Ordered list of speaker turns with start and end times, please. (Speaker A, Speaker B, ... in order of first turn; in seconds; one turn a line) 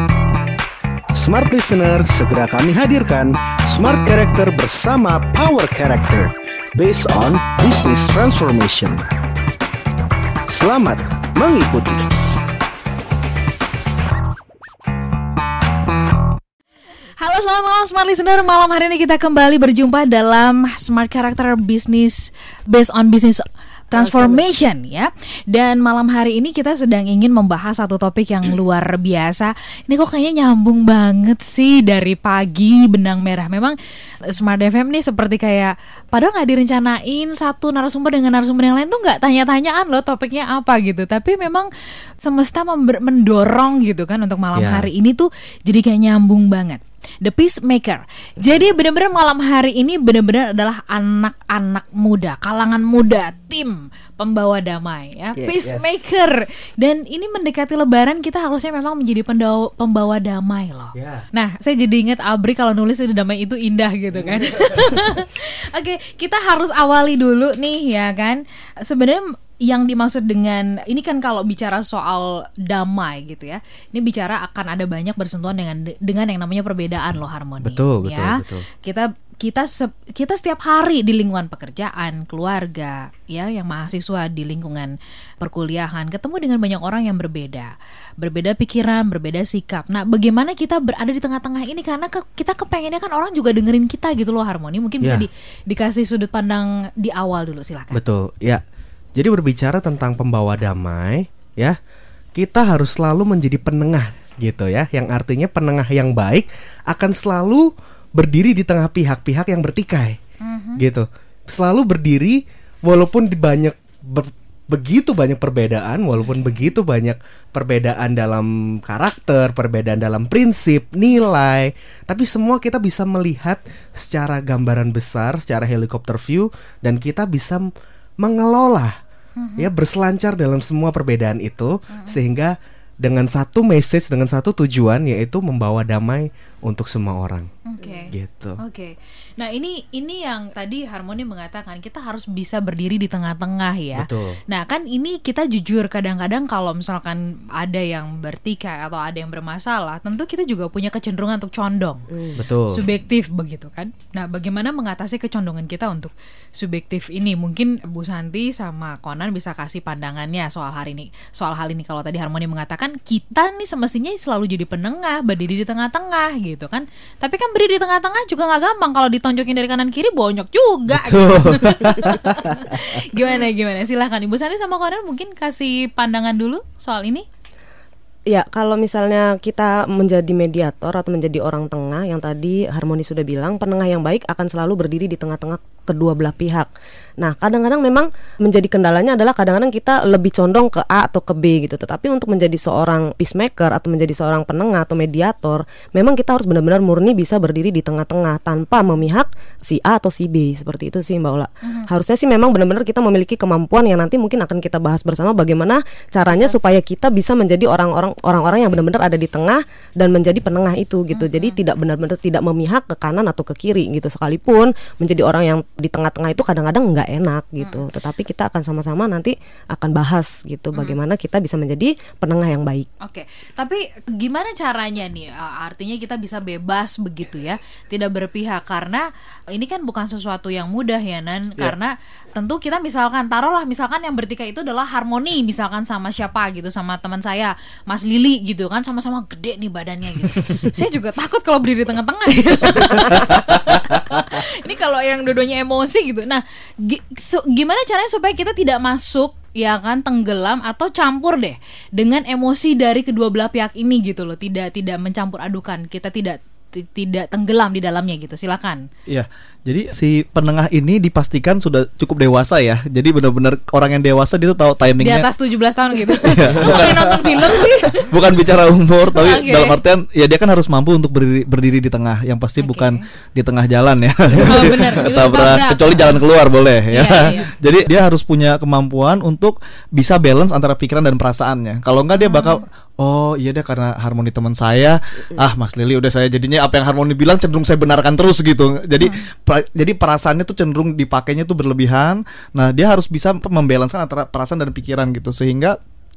Speaker A: 1.1-9.0
Speaker A: 10.5-12.1
Speaker B: 17.2-33.8
Speaker C: 24.0-24.4
Speaker B: 34.3-41.7
Speaker B: 42.2-98.0
Speaker D: 44.5-44.9
Speaker D: 55.4-55.8
Speaker D: 60.9-61.2
Speaker D: 77.6-78.6
Speaker D: 95.0-95.3
Speaker D: 97.9-98.6
Speaker D: 99.2-101.8
Speaker D: 102.3-110.2
Speaker B: 110.4-110.8
Speaker D: 110.8-129.0
Speaker B: 129.4-129.7
Speaker D: 129.6-137.5
Speaker B: 131.9-132.2
Speaker B: 137.6-152.1
Speaker D: 138.1-138.6
Speaker D: 143.9-144.4
Speaker C: 152.1-152.4
Speaker D: 152.3-152.8
Speaker B: 152.7-177.2
Speaker D: 170.9-172.8
Speaker C: 178.3-222.9
Speaker B: 201.6-201.9
Speaker B: 206.2-206.8
Speaker B: 211.1-211.6
Speaker B: 223.0-258.8
Speaker E: 259.1-265.3
Speaker B: 265.0-268.1
Speaker E: 266.2-295.8
Speaker B: 269.1-269.8
Speaker B: 272.6-273.1
Speaker B: 274.4-276.2
Speaker B: 276.9-277.5
Speaker B: 282.1-282.6